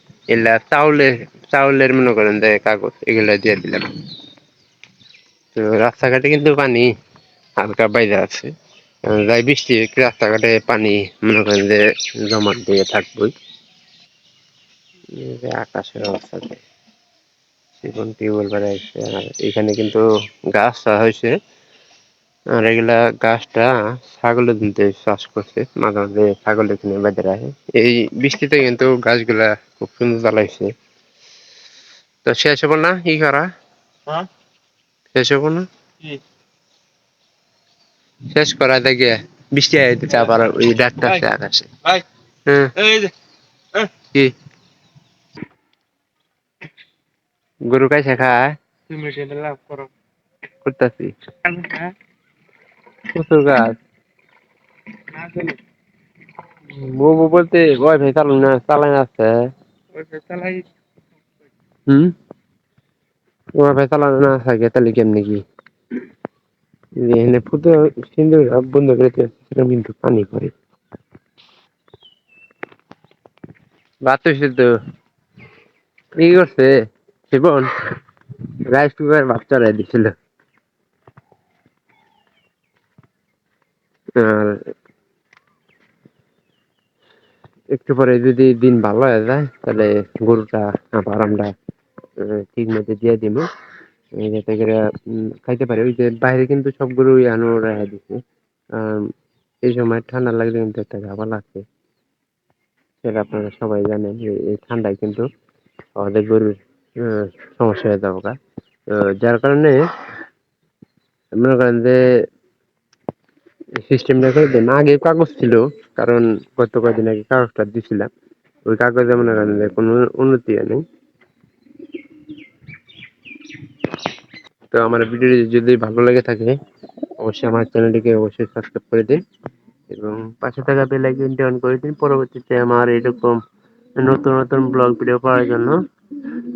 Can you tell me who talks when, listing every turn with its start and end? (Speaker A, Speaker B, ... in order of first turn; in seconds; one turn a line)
Speaker A: 0.3-3.9
Speaker A: 5.5-6.9
Speaker A: 7.6-8.5
Speaker A: 9.1-13.3
Speaker A: 15.2-16.6
Speaker A: 17.8-21.4
Speaker A: 22.6-30.7
Speaker A: 32.2-33.5
Speaker A: 35.1-35.7
Speaker A: 38.3-41.7
Speaker A: 42.5-42.7
Speaker B: 42.8-43.1
Speaker A: 47.7-48.5
Speaker B: 48.9-49.9
Speaker A: 50.6-51.2
Speaker B: 51.4-51.9
Speaker A: 53.1-53.8
Speaker B: 55.1-55.6
Speaker A: 56.7-59.3
Speaker B: 59.9-60.7
Speaker A: 61.9-62.1
Speaker A: 63.6-65.4
Speaker A: 67.0-70.5
Speaker A: 74.1-74.7
Speaker A: 76.2-76.7
Speaker A: 77.3-77.7
Speaker A: 78.7-80.1
Speaker A: 84.2-84.6
Speaker A: 87.7-91.5
Speaker A: 92.2-93.5
Speaker A: 94.2-94.8
Speaker A: 95.4-98.2
Speaker A: 98.8-99.1
Speaker A: 99.6-101.7
Speaker A: 103.0-105.3
Speaker A: 106.0-108.4
Speaker A: 108.9-109.8
Speaker A: 111.4-112.0
Speaker A: 113.8-118.1
Speaker A: 118.7-120.8
Speaker A: 124.7-126.6
Speaker A: 127.2-129.2
Speaker A: 129.9-133.4
Speaker A: 134.0-135.8